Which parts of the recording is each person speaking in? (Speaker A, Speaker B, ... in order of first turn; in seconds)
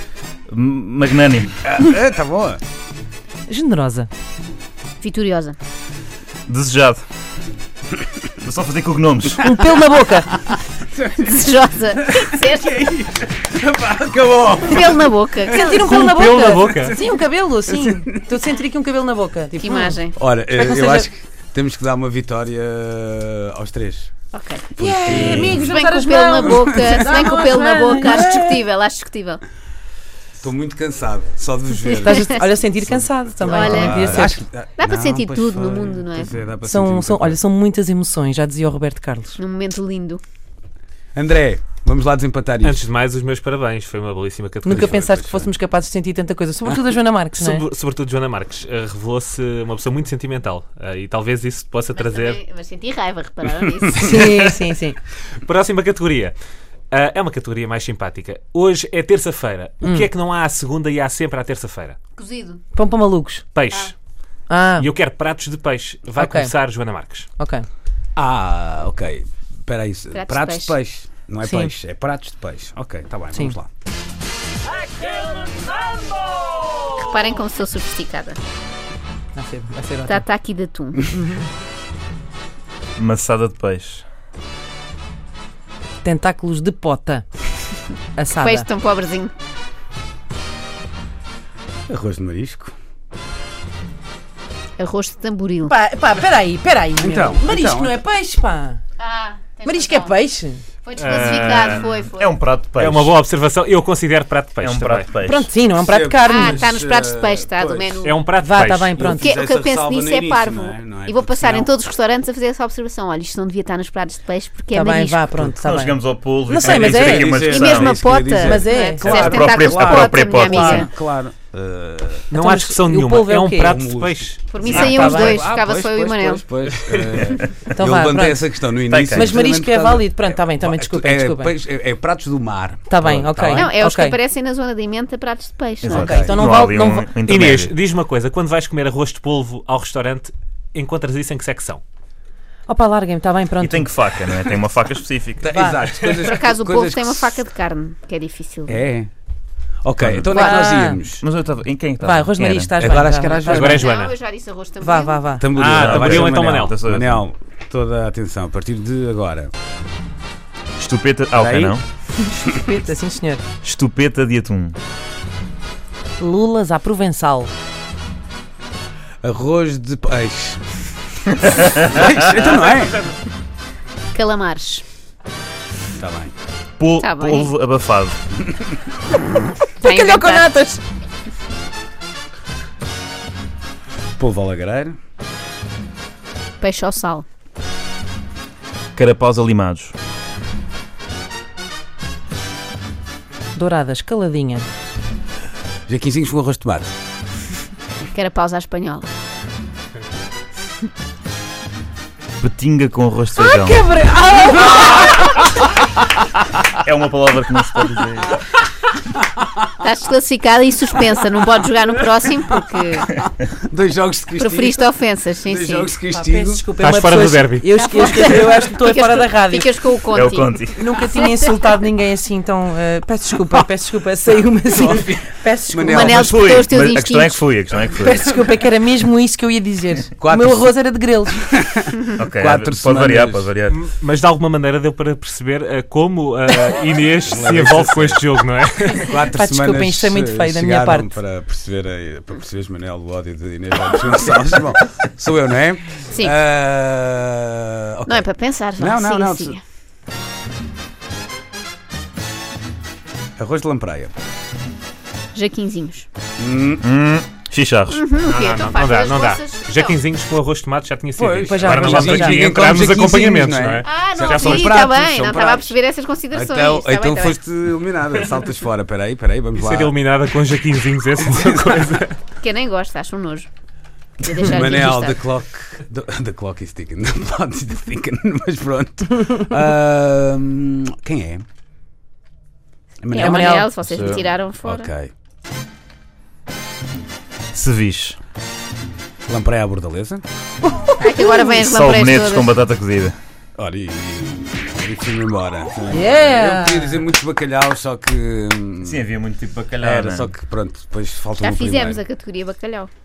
Speaker A: 0.5-1.6, 6.5-7.0, 8.4-9.4, 25.1-25.5, 83.0-84.0, 101.3-103.2, 104.6-105.5, 115.4-118.0, 119.1-120.7, 127.2-127.6, 128.9-129.4, 135.9-137.7, 143.6-145.5, 150.0-150.4, 151.2-152.8, 155.7-157.2, 160.8-161.8, 163.6-164.8, 171.6-171.8, 176.8-178.2, 189.0-189.9, 202.4-203.8, 206.8-208.4, 220.1-220.8, 226.1-228.3, 232.2-233.8, 256.8-258.0, 283.9-284.3, 287.5-288.2, 291.4-293.2, 298.8-300.3
Speaker B: 1.6-2.6, 10.8-11.5, 12.1-18.4, 20.2-24.1, 24.7-25.7, 26.4-26.7, 30.4-37.4, 41.1-42.9, 44.7-45.5, 68.2-73.7, 91.9-92.7, 97.0-98.0, 105.8-108.1, 109.0-111.7, 116.7-122.3, 123.6-133.7, 135.8-136.4, 145.4-147.4, 148.7-149.1, 149.8-151.2, 152.8-153.8, 155.4-159.5, 161.4-161.8, 169.2-170.6, 171.3-173.0, 176.0-176.3, 184.2-185.0, 195.9-196.9, 213.5-214.9, 215.4-216.7, 224.7-226.3, 230.2-230.8, 231.4-233.5, 237.2-238.2, 239.0-249.6, 253.4-254.1, 256.4-256.8, 261.2-265.8, 266.3-269.9, 274.3-281.4, 283.0-283.5, 284.6-285.1, 289.3-290.2, 293.6-299.1, 299.8-302.0
Speaker C: 3.5-4.1, 9.4-10.3, 15.5-20.0, 20.5-21.1, 24.8-28.6, 32.0-34.4, 36.6-39.4, 44.6-47.6, 54.0-55.0, 62.7-63.5, 64.5-64.9, 66.2-66.5, 67.4-67.7, 71.4-71.7, 79.3-80.2, 86.0-87.3, 88.2-88.7, 95.6-98.8, 99.7-100.6, 105.2-106.7, 108.4-109.3, 114.7-117.3, 118.4-119.7, 120.2-120.9, 122.3-123.8, 124.7-125.5, 127.8-128.5, 129.1-131.5, 132.9-134.2, 135.9-137.1, 142.7-144.2, 145.5-145.8, 150.3-151.0, 152.0-153.9, 154.8-155.5, 162.2-163.4, 166.2-167.5, 179.8-180.8, 193.6-194.7, 203.4-205.4, 216.1-219.9, 220.8-226.2, 228.0-231.5, 239.3-241.2, 261.4-262.6, 274.5-274.8, 283.1-283.7, 295.9-297.0
Speaker D: 5.0-5.6, 11.2-12.9, 14.6-16.0, 19.6-20.2, 24.3-24.7, 25.5-29.4, 33.5-34.1, 34.8-36.3, 39.4-40.2, 52.0-54.1, 62.2-62.6, 70.1-70.8, 77.0-78.4, 80.1-81.1, 88.3-89.3, 94.8-95.7, 99.0-100.2, 100.8-102.4, 106.2-108.2, 109.1-115.4, 117.4-120.9, 124.5-126.5, 133.5-136.1, 146.2-148.8, 153.7-155.3, 174.1-174.8, 177.0-177.5, 179.8-180.5, 186.6-187.2, 198.0-199.1, 209.8-213.1, 214.4-215.9, 217.8-221.7, 225.9-227.4, 248.1-249.6, 255.3-256.1, 257.9-260.0, 263.9-267.4, 272.4-273.5, 274.2-275.2, 283.1-284.9, 291.0-292.6, 301.4-302.9
Speaker E: 15.8-16.9, 42.6-45.0, 47.3-52.4, 54.0-54.6, 55.4-56.4, 56.9-62.0, 63.5-64.0, 64.8-67.3, 101.0-101.8, 102.8-105.1, 108.0-109.1, 122.3-125.1, 137.2-141.8, 153.5-154.2, 155.6-156.7, 216.8-218.4, 233.7-239.1, 258.2-264.6, 269.6-272.2